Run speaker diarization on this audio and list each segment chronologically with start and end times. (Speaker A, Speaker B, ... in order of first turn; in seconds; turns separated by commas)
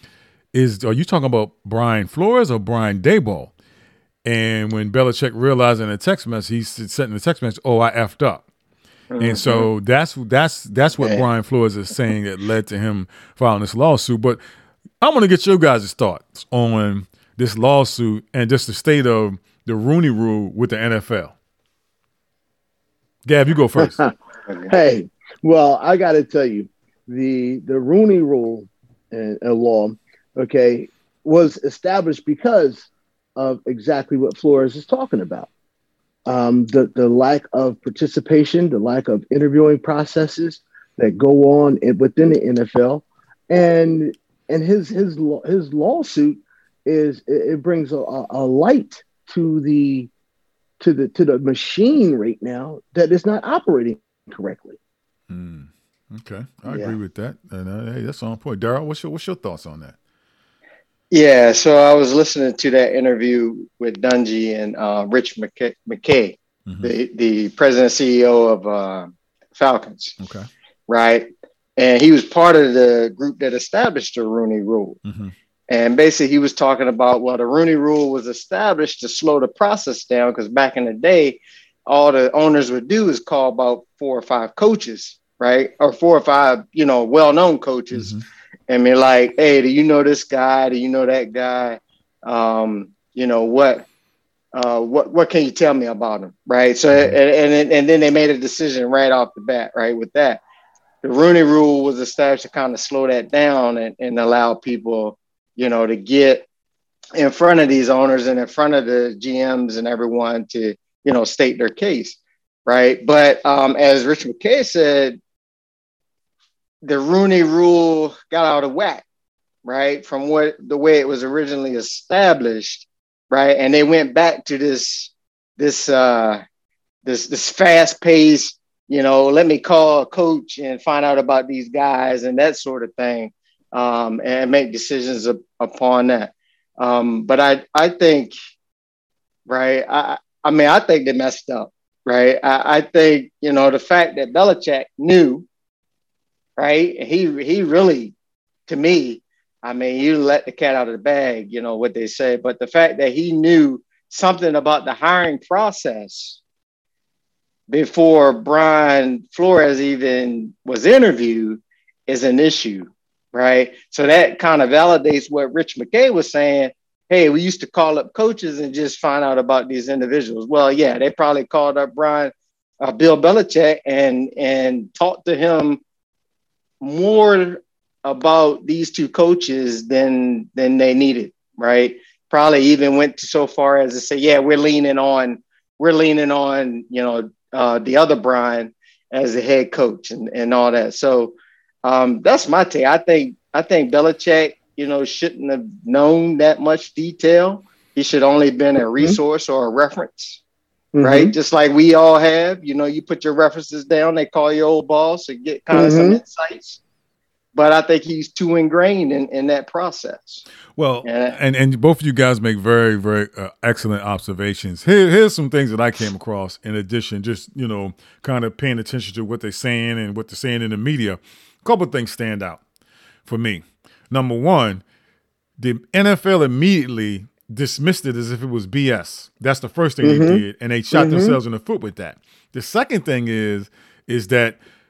Speaker A: 0.5-3.5, Speaker A: 4.2-8.4, Speaker B: 9.1-9.7, Speaker A: 9.2-14.4, Speaker A: 15.0-21.4, Speaker A: 23.2-24.0, Speaker C: 23.8-24.1, Speaker B: 24.5-24.7, Speaker C: 24.7-35.5, Speaker C: 36.3-50.1, Speaker C: 50.8-54.8, Speaker A: 55.3-60.0, Speaker B: 56.6-56.9, Speaker B: 61.1-70.2, Speaker A: 66.7-66.9, Speaker A: 70.2-70.5, Speaker B: 70.9-75.0, Speaker A: 75.0-75.3, Speaker B: 75.7-88.1, Speaker A: 87.9-88.2, Speaker B: 88.7-93.9, Speaker B: 94.5-100.4, Speaker B: 101.0-106.5, Speaker B: 107.2-115.2, Speaker B: 116.8-119.0, Speaker B: 119.6-126.4, Speaker B: 127.0-138.3, Speaker B: 139.5-145.5, Speaker B: 146.6-148.1, Speaker B: 148.7-156.4, Speaker B: 157.7-175.8, Speaker B: 176.8-200.4, Speaker C: 200.9-201.3, Speaker B: 201.0-206.8, Speaker C: 205.7-206.2, Speaker B: 207.5-210.4, Speaker A: 210.8-222.6, Speaker B: 211.0-211.4, Speaker A: 223.2-224.8, Speaker A: 225.6-234.6, Speaker C: 230.0-230.4, Speaker C: 230.9-231.4